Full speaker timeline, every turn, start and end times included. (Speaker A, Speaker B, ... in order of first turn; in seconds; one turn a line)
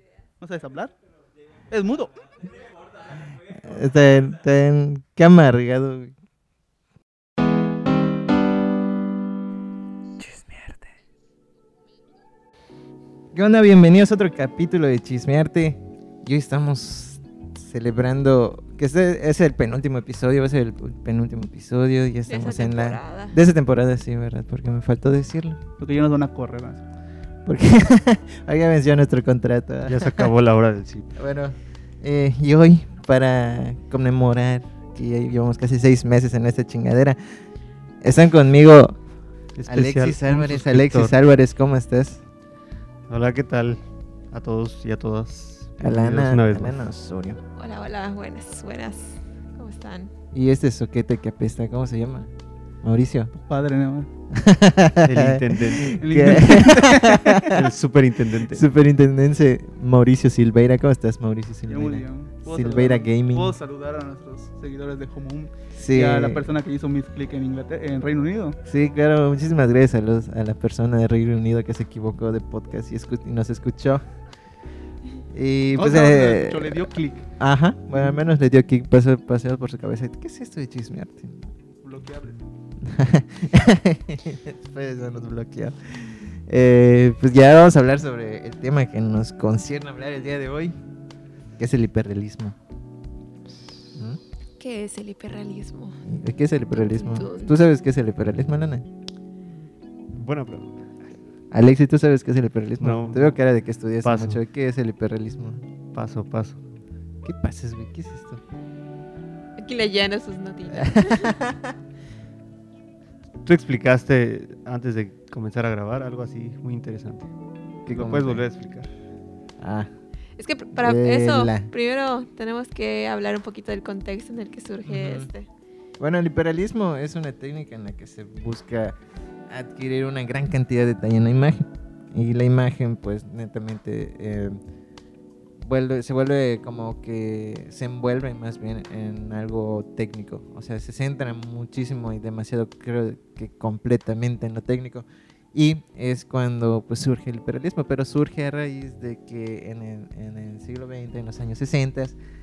Speaker A: 0.4-0.9
Speaker A: 1.7-2.5
Speaker B: 3.4-6.1
Speaker B: 10.2-10.9
Speaker B: 13.3-25.6
Speaker C: 22.3-23.4
Speaker A: 25.8-26.8
Speaker B: 27.4-30.3
Speaker D: 29.8-31.1
Speaker B: 31.1-37.5
Speaker B: 38.0-39.0
Speaker D: 39.5-41.1
Speaker B: 39.6-42.2
Speaker D: 43.1-46.9
Speaker B: 45.8-47.4
Speaker C: 47.5-50.1
Speaker B: 50.3-53.3
Speaker A: 53.4-54.1
Speaker B: 54.3-57.5
Speaker D: 55.0-56.4
Speaker A: 56.0-57.3
Speaker D: 57.5-58.6
Speaker B: 58.5-63.5
Speaker A: 61.7-68.6
Speaker B: 65.7-66.5
Speaker B: 68.6-74.2
Speaker B: 75.3-81.5
Speaker A: 75.8-77.3
Speaker A: 81.8-82.4
Speaker B: 82.8-90.8
Speaker B: 91.6-92.5
Speaker B: 93.9-94.2
Speaker C: 94.6-96.0
Speaker B: 96.0-98.8
Speaker C: 96.7-97.5
Speaker D: 100.1-101.0
Speaker B: 101.5-105.6
Speaker D: 102.8-103.4
Speaker D: 104.0-104.4
Speaker D: 105.9-106.6
Speaker B: 107.2-108.4
Speaker C: 109.6-111.3
Speaker B: 110.7-111.7
Speaker D: 113.4-117.3
Speaker B: 117.8-118.4
Speaker D: 117.9-118.9
Speaker B: 119.6-120.0
Speaker C: 120.4-125.5
Speaker B: 120.7-121.7
Speaker B: 124.8-125.3
Speaker B: 126.0-134.6
Speaker B: 135.6-152.2